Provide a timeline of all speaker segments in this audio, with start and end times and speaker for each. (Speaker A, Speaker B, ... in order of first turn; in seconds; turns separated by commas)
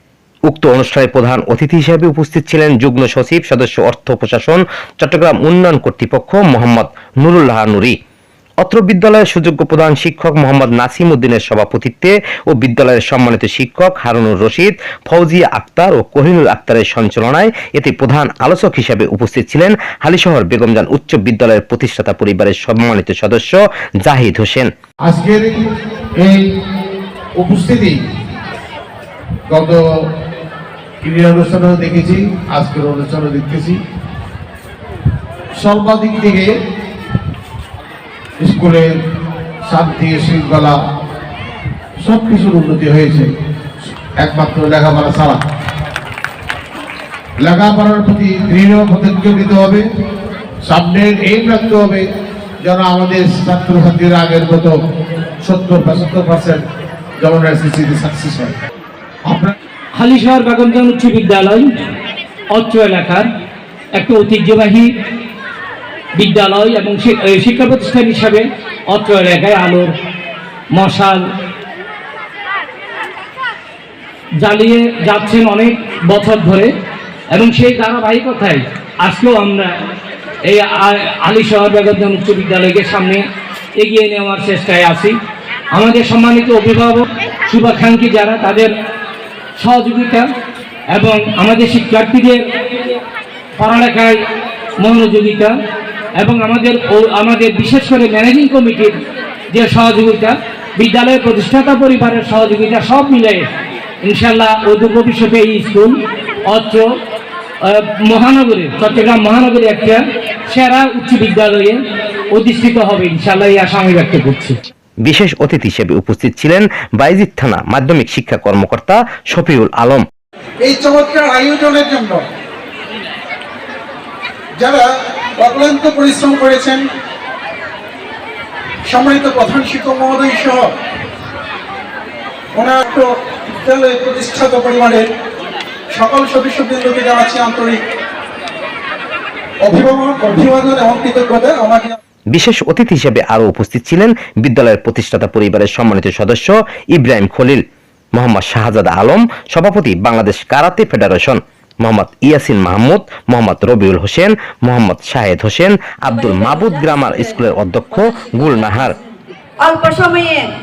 Speaker A: 0.5-8.0, Speaker A: 8.6-24.7, Speaker B: 25.1-25.5, Speaker B: 26.2-26.5, Speaker B: 27.4-27.9, Speaker B: 29.5-29.8, Speaker B: 31.0-33.8, Speaker B: 35.6-36.5, Speaker B: 38.4-38.9, Speaker B: 39.6-40.8, Speaker B: 42.0-43.3, Speaker B: 44.2-45.4, Speaker B: 47.4-49.8, Speaker B: 50.7-52.0, Speaker B: 52.6-54.7, Speaker B: 55.4-56.6, Speaker B: 57.2-58.5, Speaker B: 59.3-59.5, Speaker C: 60.0-61.7, Speaker C: 62.5-63.2, Speaker C: 63.9-64.9, Speaker C: 66.2-69.9, Speaker C: 70.7-71.2, Speaker C: 74.4-76.7, Speaker C: 77.3-79.7, Speaker C: 80.5-83.2, Speaker C: 83.8-85.1, Speaker C: 85.7-88.7, Speaker C: 89.6-90.3, Speaker C: 90.9-92.4, Speaker C: 93.6-94.1, Speaker C: 94.8-95.5, Speaker C: 96.2-98.9, Speaker C: 99.5-103.4, Speaker C: 104.0-105.9, Speaker C: 106.5-106.8, Speaker C: 107.7-111.8, Speaker C: 112.3-114.5, Speaker A: 115.0-120.0, Speaker D: 120.6-122.2, Speaker D: 124.6-124.8, Speaker D: 125.4-126.8, Speaker D: 128.9-130.7, Speaker D: 132.5-135.1, Speaker D: 135.9-137.8, Speaker D: 139.6-142.0, Speaker A: 142.3-147.6, Speaker A: 148.2-158.9, Speaker E: 156.1-157.3, Speaker E: 159.6-160.4